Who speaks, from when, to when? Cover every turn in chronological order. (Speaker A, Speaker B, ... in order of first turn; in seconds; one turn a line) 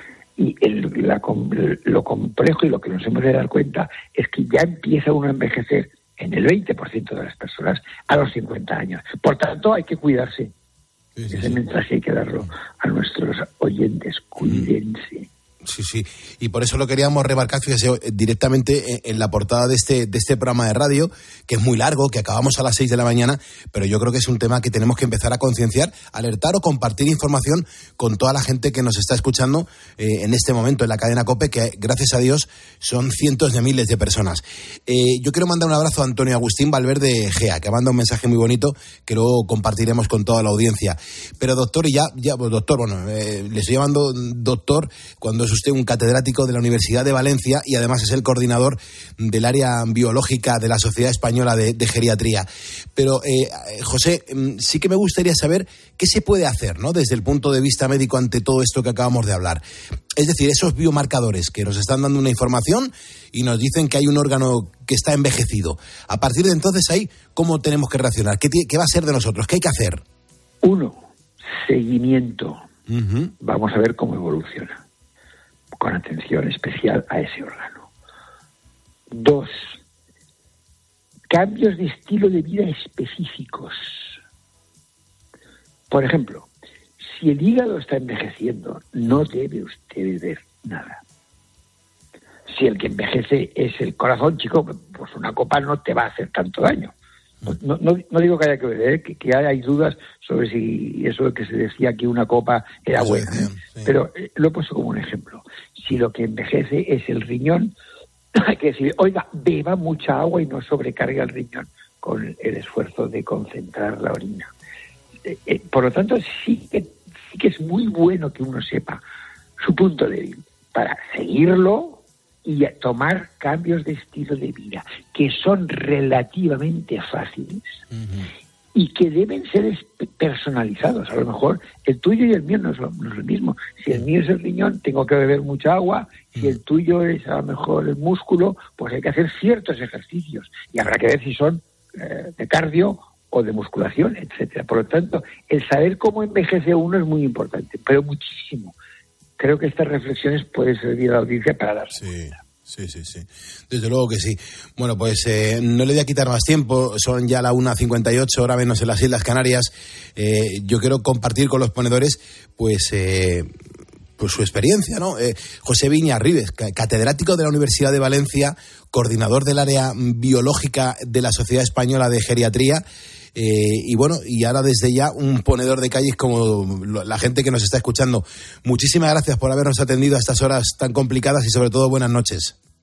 Speaker A: 0.4-10.5
Speaker B: 11.2-11.6
Speaker A: 11.3-15.3
Speaker B: 15.6-59.6
Speaker B: 60.1-70.0
Speaker A: 70.6-72.6
Speaker B: 72.9-73.3
Speaker A: 73.4-74.8
Speaker A: 75.8-77.9
Speaker A: 79.1-79.8
Speaker A: 81.3-84.1
Speaker A: 85.9-86.5
Speaker A: 87.0-91.0
Speaker A: 92.5-96.9
Speaker A: 97.5-107.7
Speaker B: 103.0-103.9
Speaker A: 108.3-114.5
Speaker A: 115.2-119.0
Speaker A: 119.6-127.8
Speaker A: 128.7-148.7
Speaker A: 149.4-152.1
Speaker B: 152.0-163.5
Speaker B: 164.2-172.8
Speaker B: 173.3-182.5